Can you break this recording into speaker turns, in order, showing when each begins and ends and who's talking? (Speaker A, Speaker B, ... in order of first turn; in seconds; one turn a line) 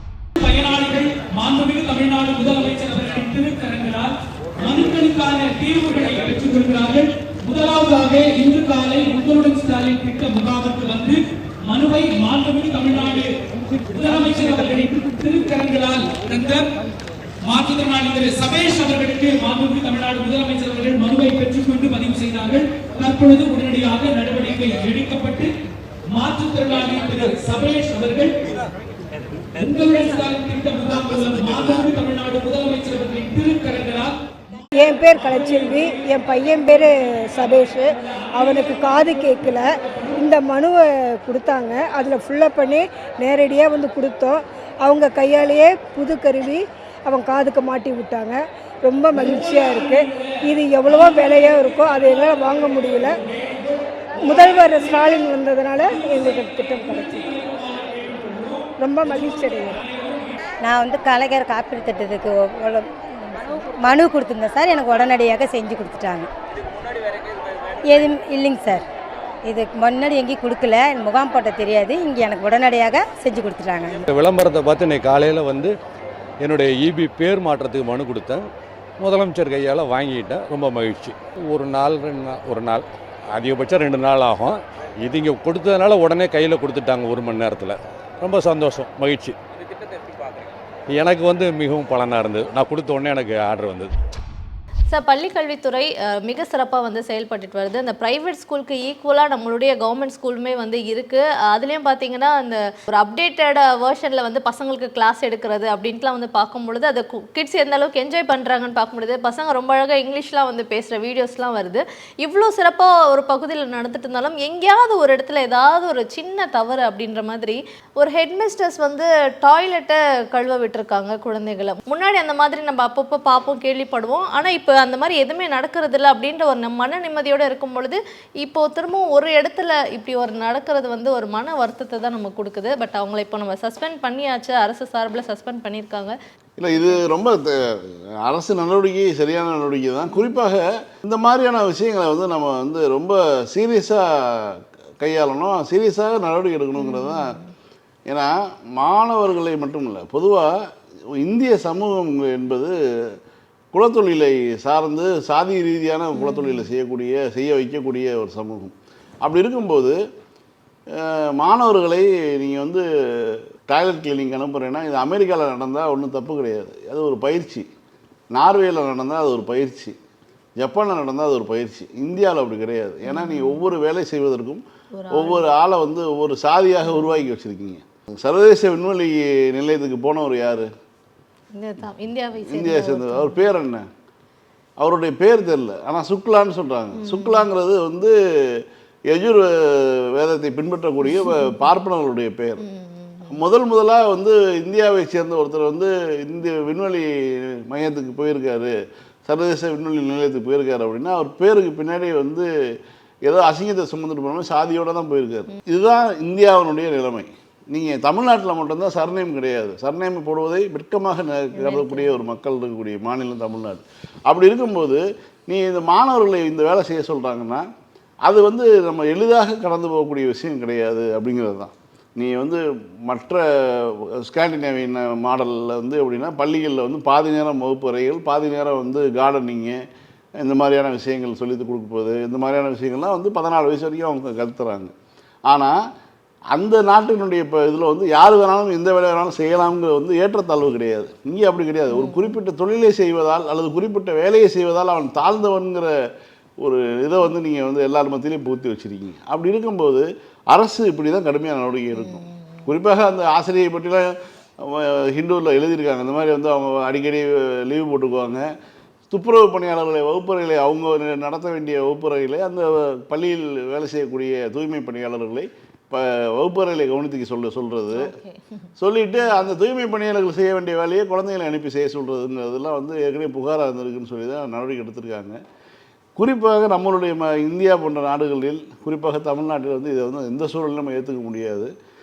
Speaker A: 0.4-16.6
Speaker A: 17.4-25.5
Speaker A: 26.1-28.4
Speaker A: 29.6-34.1
Speaker B: 34.8-53.2
Speaker A: 35.3-35.8
Speaker A: 38.4-40.1
Speaker A: 49.1-50.4
Speaker A: 50.9-51.2
Speaker A: 53.1-53.7
Speaker B: 54.2-57.2
Speaker A: 54.3-54.8
Speaker A: 55.9-60.4
Speaker B: 58.8-59.8
Speaker C: 60.6-66.3
Speaker C: 67.9-68.8
Speaker C: 69.5-74.0
Speaker D: 74.1-75.7
Speaker D: 76.4-78.4
Speaker D: 79.0-89.4
Speaker D: 90.9-93.9
Speaker E: 94.9-136.1
Speaker F: 136.6-147.3
Speaker E: 136.7-137.0
Speaker E: 146.8-147.5
Speaker F: 148.1-150.6
Speaker F: 151.2-153.1
Speaker F: 153.7-160.0
Speaker E: 156.2-156.7
Speaker F: 160.9-167.7
Speaker F: 168.3-169.9
Speaker F: 170.6-174.6
Speaker E: 173.1-173.7
Speaker E: 175.0-175.5
Speaker F: 175.1-180.7
Speaker E: 181.6-183.5
Speaker F: 182.4-183.9
Speaker F: 184.8-192.6
Speaker E: 187.0-187.5
Speaker E: 191.1-191.6
Speaker E: 192.6-193.4
Speaker F: 193.3-198.8
Speaker F: 199.3-202.5
Speaker F: 203.3-217.7
Speaker E: 211.6-212.1
Speaker F: 218.3-229.8
Speaker F: 230.4-234.9
Speaker F: 235.5-235.8
Speaker F: 236.5-245.9
Speaker E: 241.9-242.4
Speaker F: 246.6-254.1
Speaker E: 252.0-252.6
Speaker F: 254.6-258.4
Speaker F: 259.1-268.1
Speaker E: 267.9-268.4
Speaker F: 268.8-275.4
Speaker F: 276.2-281.7